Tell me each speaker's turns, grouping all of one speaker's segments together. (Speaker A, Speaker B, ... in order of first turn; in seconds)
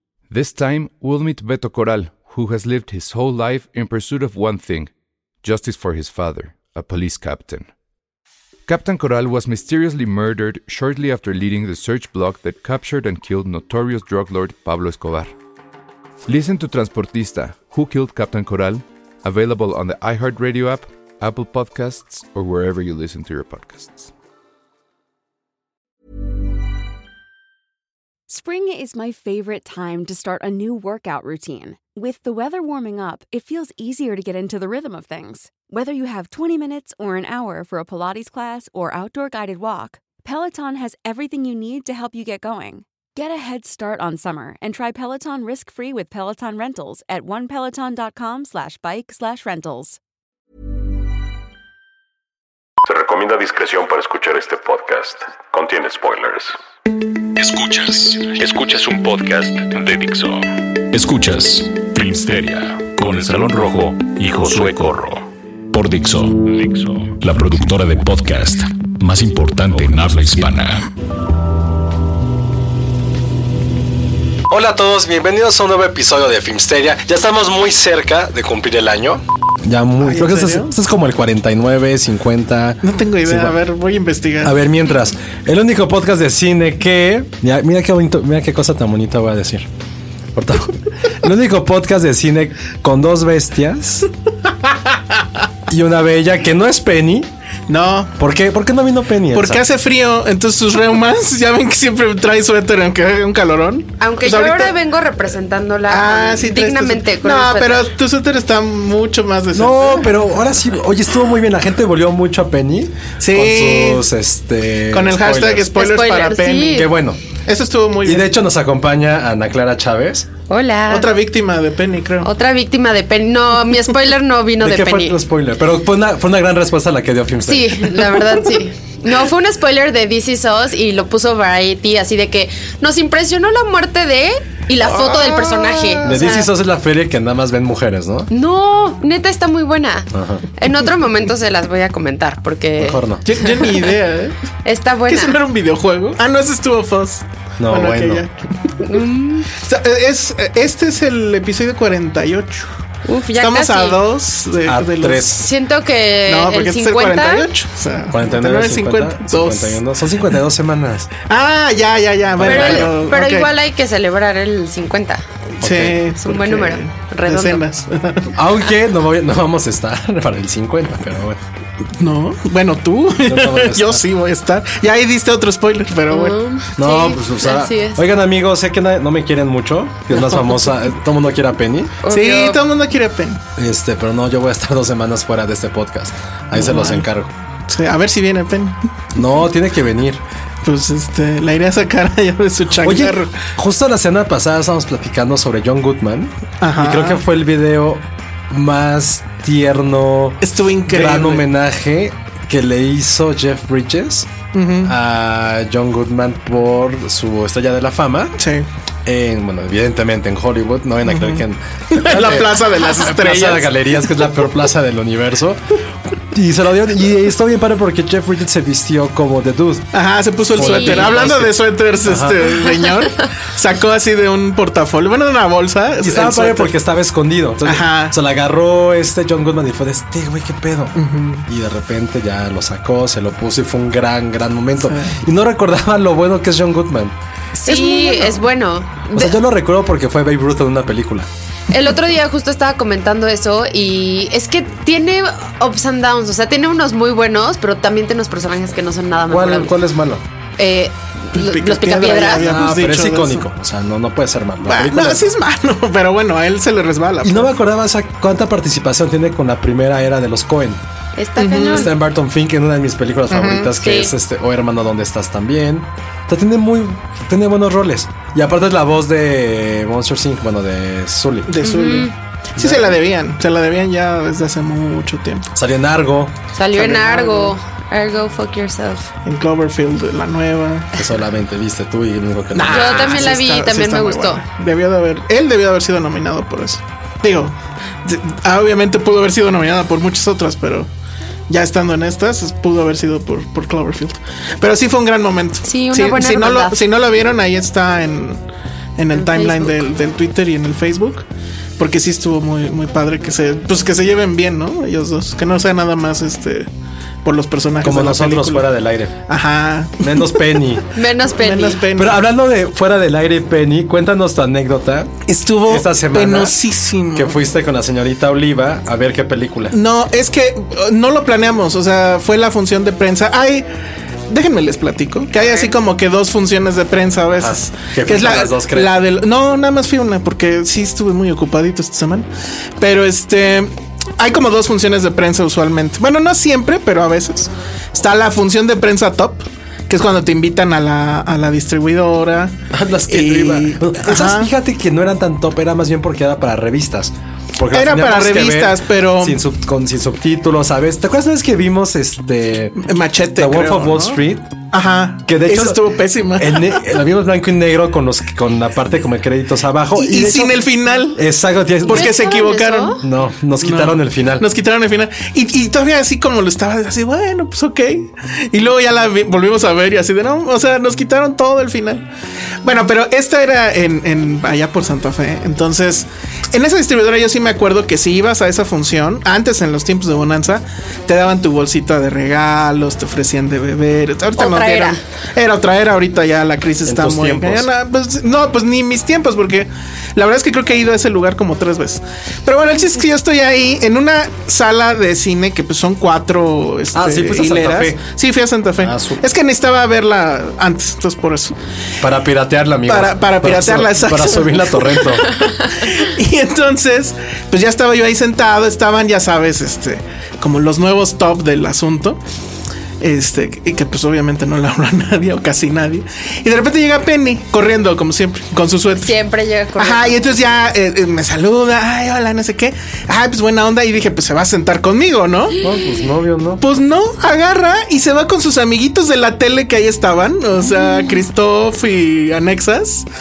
Speaker A: 0.3-4.9, 5.4-7.7, 8.7-15.3, 16.3-24.1
Speaker B: 28.3-50.0
Speaker C: 52.8-56.6, 57.4-70.9
Speaker D: 74.5-83.6, 84.4-89.7, 90.3-94.1, 95.7-97.3, 98.2-99.6, 109.5-115.7, 116.7-117.2, 118.0-120.3, 124.6-128.2, 136.0-138.3, 140.1-140.5, 142.8-143.2, 147.6-148.2, 154.6-155.4, 158.1-161.1, 162.3-162.9, 165.6-166.0, 168.3-171.4, 173.2-174.0, 176.8-182.0, 183.6-187.3, 189.1-190.2, 192.8-204.3, 204.8-208.4, 209.0-215.6, 216.3-219.9, 220.5-222.6, 226.0-230.9, 231.5-237.2, 239.1-241.3, 249.3-250.2, 252.3-255.3, 257.2-260.8, 261.5-271.7, 272.6-272.9, 275.5-276.3, 280.9-283.3, 307.8-309.1, 310.0-310.8, 311.9-316.6, 317.1-319.8, 327.3-328.9, 342.7-352.8, 353.4-354.5, 355.2-362.1, 363.0-364.5, 386.8-387.7, 396.9-398.0, 398.8-399.2, 402.0-405.3, 425.6-426.6
Speaker E: 80.0-80.7, 82.8-84.5, 97.7-98.2, 99.3-104.7, 105.9-110.2, 113.2-114.0, 114.9-116.8, 117.4-118.3, 120.9-122.3, 134.8-136.4, 143.2-144.4, 145.1-149.0, 149.6-152.7, 153.4-155.3, 156.2-159.8, 161.2-163.5, 165.6-168.3, 172.0-176.4, 182.1-183.4, 186.5-187.1, 187.7-188.8, 190.6-193.4, 196.6-197.2, 200.4-201.4, 204.5-204.9, 208.4-208.7, 211.1-214.1, 219.9-226.7, 227.6-228.2, 230.9-231.4, 234.8-235.1, 237.7-238.4, 251.3-253.4, 254.6-257.5, 261.4-261.9, 263.3-263.7, 271.5-275.5, 276.7-277.5, 279.2-280.9, 282.5-290.9, 291.5-298.4, 299.0-301.2, 301.8-306.7, 307.2-308.7, 309.3-310.6, 311.3-312.2, 315.3-317.4, 319.7-323.7, 324.3-332.3, 332.8-342.6, 343.1-344.5, 347.7-349.4, 352.8-357.0, 359.9-361.2, 361.9-363.0, 363.6-372.1, 372.6-401.5, 402.9-412.2, 413.0-419.1, 419.8-425.6, 426.6-433.1
Speaker F: 104.0-107.9, 115.7-116.9, 120.5-121.1, 122.2-125.2, 127.4-136.5, 138.3-143.9, 144.6-145.4, 148.8-149.5, 153.1-154.0, 155.2-157.5, 162.4-165.2, 166.2-167.6, 176.1-178.0, 180.1-180.5, 182.0-182.6, 220.6-221.3, 237.6-239.4, 241.7-249.8, 250.6-252.7, 261.1-261.9, 263.8-264.1, 271.6-272.1, 276.5-279.1, 282.7-284.4, 295.6-296.8, 299.1-299.9, 310.9-311.9, 325.4-325.7, 361.9-363.0, 384.4-385.0, 419.0-420.2